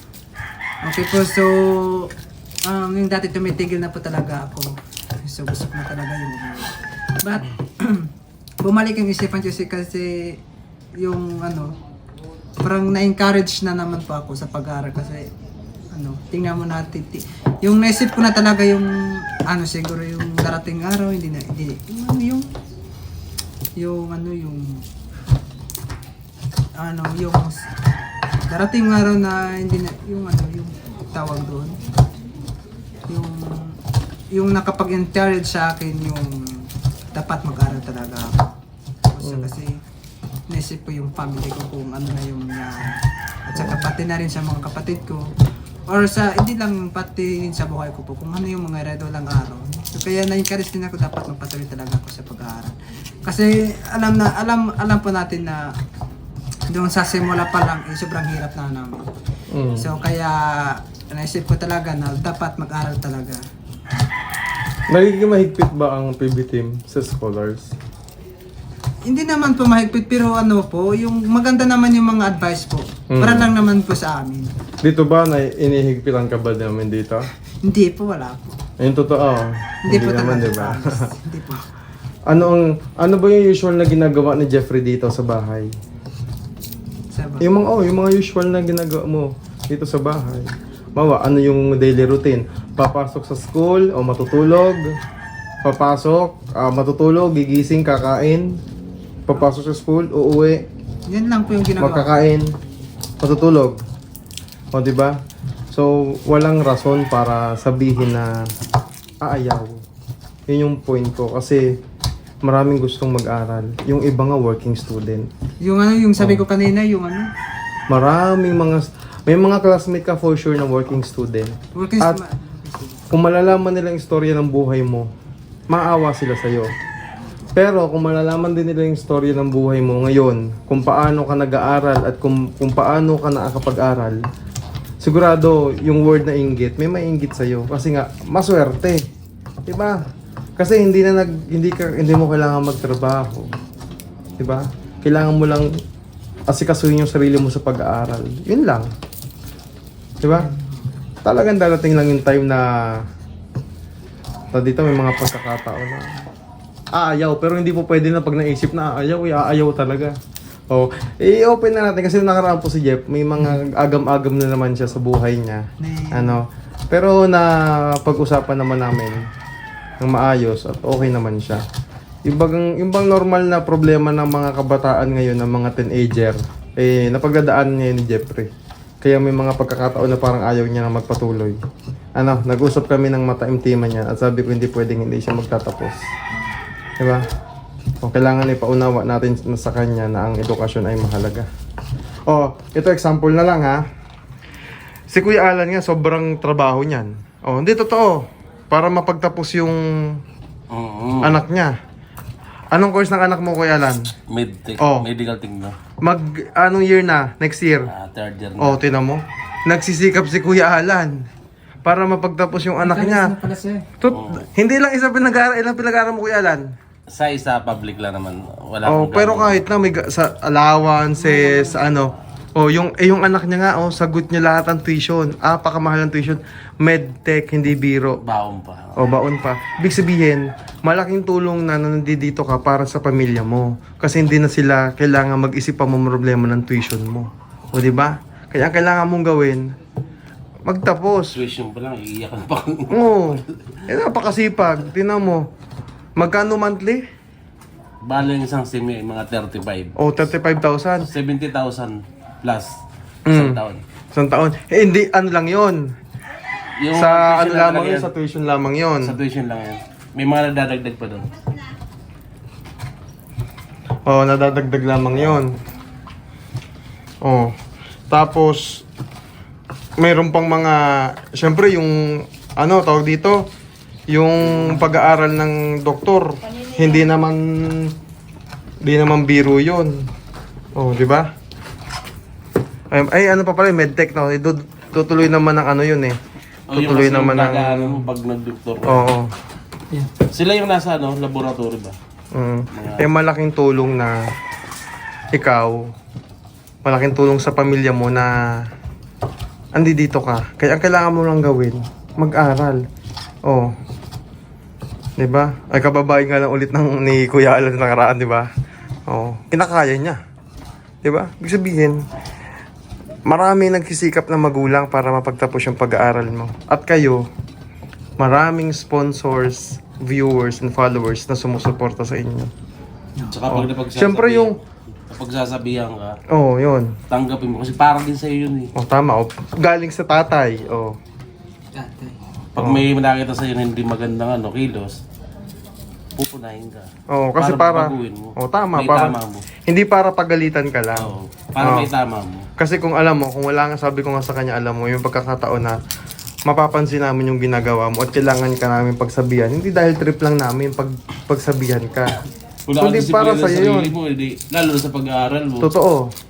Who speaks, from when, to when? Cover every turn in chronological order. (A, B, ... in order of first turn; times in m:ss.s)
0:00.8-0:10.4 A
0:11.0-0:11.7 A
0:12.6-0:15.3 A
0:15.9-0:22.6 A
0:23.8-0:24.8 A
0:26.8-0:27.7 A
0:28.5-0:31.8 A
0:33.1-0:33.8 A
0:34.3-0:38.5 A
0:39.1-0:39.8 A
0:39.2-0:39.5 B
0:40.5-0:45.3 A
0:45.9-0:55.7 A
0:56.7-0:59.1 A
0:59.5-0:59.9 B
0:59.8-1:03.4 A
1:04.9-1:07.7 B
1:09.0-1:14.5 A
1:13.1-1:13.5 B
1:14.8-1:17.3 B
1:17.6-1:18.6 A
1:18.8-1:21.1 B
1:19.8-1:21.7 A
1:22.3-1:25.7 B
1:27.1-1:27.5 A
1:27.4-1:34.9 B
1:35.6-1:38.6 B
1:39.3-1:40.7 B
1:41.1-1:42.1 A
1:41.8-1:42.5 B
1:43.2-1:43.8 B
1:44.7-1:45.2 B
1:45.7-1:48.4 B
1:49.2-1:49.8 B
1:50.5-1:51.8 B
1:52.4-1:55.3 B
1:55.6-1:57.3 A
1:57.9-2:02.2 B
2:01.7-2:03.0 A
2:03.1-2:05.1 B
2:05.7-2:06.7 B
2:07.5-2:14.2 B
2:15.0-2:19.1 B
2:19.7-2:20.0 B
2:20.6-2:23.5 B
2:24.4-2:25.8 B
2:26.5-2:28.9 B
2:30.2-2:30.5 B
2:30.5-2:30.7 A
2:31.2-2:33.0 B
2:34.5-2:36.1 B
2:36.9-2:40.2 B
2:40.7-2:49.2 B
2:45.8-2:46.4 A
2:50.0-2:51.6 B
2:52.2-2:58.5 B
2:59.0-3:01.6 B
3:02.1-3:06.0 B
3:07.0-3:07.3 B
3:08.0-3:11.5 B
3:12.3-3:13.8 B
3:15.1-3:20.2 B
3:20.7-3:21.4 C
3:21.2-3:21.7 B
3:22.7-3:24.1 B
3:24.3-3:25.8 C
3:24.8-3:25.1 B
3:26.0-3:27.9 B
3:27.9-3:28.8 C
3:28.6-3:31.3 B
3:31.8-3:33.3 B
3:32.8-3:33.8 A
3:34.0-3:36.7 B
3:34.1-3:34.5 C
3:37.1-3:39.6 C
3:38.8-3:48.2 B
3:41.2-3:41.8 A
3:48.2-3:49.1 C
3:49.0-3:59.7 B
4:00.6-4:01.4 B
4:01.3-4:03.8 C
4:02.9-4:05.5 B
4:06.2-4:07.0 B
4:08.0-4:10.0 C
4:10.0-4:11.1 B
4:11.0-4:12.7 C
4:13.2-4:13.6 B
4:13.3-4:13.8 C
4:14.1-4:15.9 B
4:16.8-4:18.1 C
4:16.9-4:19.2 B
4:19.0-4:21.3 C
4:24.0-4:25.6 B
4:27.2-4:27.5 B
4:28.1-4:28.8 B
4:30.0-4:33.5 B
4:34.1-4:38.0 B
4:34.5-4:35.0 C
4:38.8-4:40.0 B
4:40.7-4:41.3 B
4:42.9-4:46.2 B
4:46.7-4:49.0 C
4:46.7-4:48.0 B
4:48.8-4:49.3 B
4:50.3-4:52.0 C
4:52.3-4:54.2 B
4:52.7-4:53.1 C
4:55.3-4:55.9 B
4:56.8-4:58.6 B
4:59.7-5:02.8 B
5:03.4-5:03.7 B
5:05.2-5:08.5 B
5:09.1-5:10.2 B
5:11.0-5:12.0 B
5:13.2-5:17.3 B
5:18.2-5:22.5 B
5:23.3-5:24.6 C
5:23.5-5:24.6 B
5:25.1-5:26.2 C
5:26.3-5:27.0 B
5:27.1-5:28.7 C
5:28.8-5:31.0 B
5:31.7-5:32.1 A
5:32.5-5:35.0 C
5:32.6-5:32.8 B
5:36.2-5:39.4 C
5:37.1-5:41.9 B
5:41.0-5:42.5 C
5:42.6-5:45.8 B
5:46.4-5:52.2 B
5:52.7-5:55.7 C
5:52.8-5:53.9 B
5:55.6-5:56.1 B